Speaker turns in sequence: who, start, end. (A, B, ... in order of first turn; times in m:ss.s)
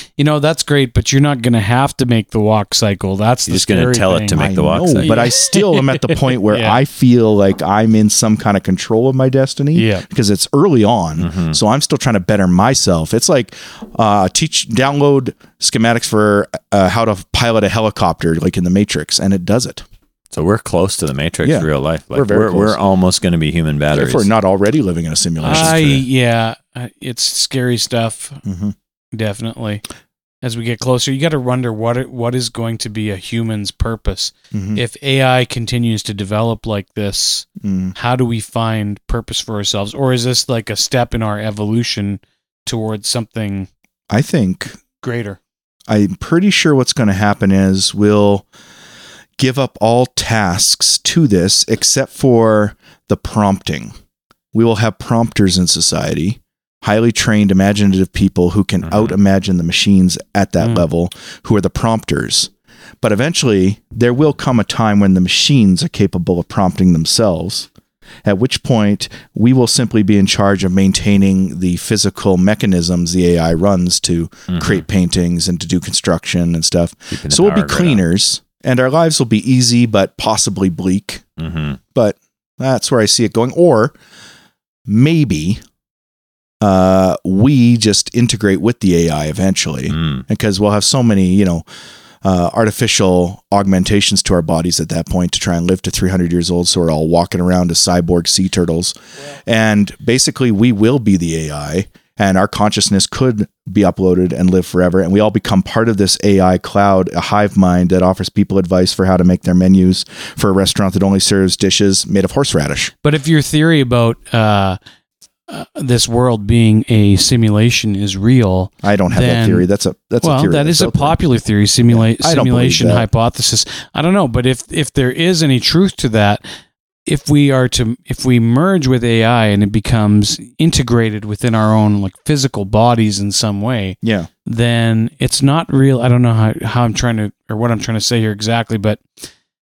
0:00.2-0:04.5 A
0:03.5-0:05.2 B
0:04.4-0:19.8 C
0:05.0-0:06.8 A
0:09.8-0:10.0 A
0:11.2-0:11.6 B
0:20.3-0:24.3 B
0:21.4-0:22.8 C
0:23.9-0:26.0 C
0:25.4-0:28.4 A
0:25.5-0:26.0 B
0:28.4-0:28.8 C
0:29.1-0:29.8 A
0:30.4-0:43.7 A
0:34.5-0:34.8 C
0:37.6-0:38.0 C
0:44.1-0:44.8 C
0:45.0-0:45.4 A
0:45.9-0:48.5 C
0:49.4-0:53.9 C
0:54.5-1:02.5 C
0:58.8-0:59.2 B
1:00.6-1:00.9 A
1:03.0-1:07.7 C
1:08.2-1:21.2 C
1:14.5-1:14.8 B
1:17.1-1:18.0 B
1:21.4-1:21.8 B
1:22.0-1:24.0 C
1:24.9-1:25.6 C
1:26.6-1:31.6 C
1:29.9-1:30.2 B
1:32.2-1:52.9 C
1:53.0-1:54.8 A
1:55.5-1:59.7 A
1:58.8-2:01.2 C
2:00.2-2:06.4 A
2:01.9-2:03.1 C
2:07.1-2:19.0 A
2:14.0-2:14.3 C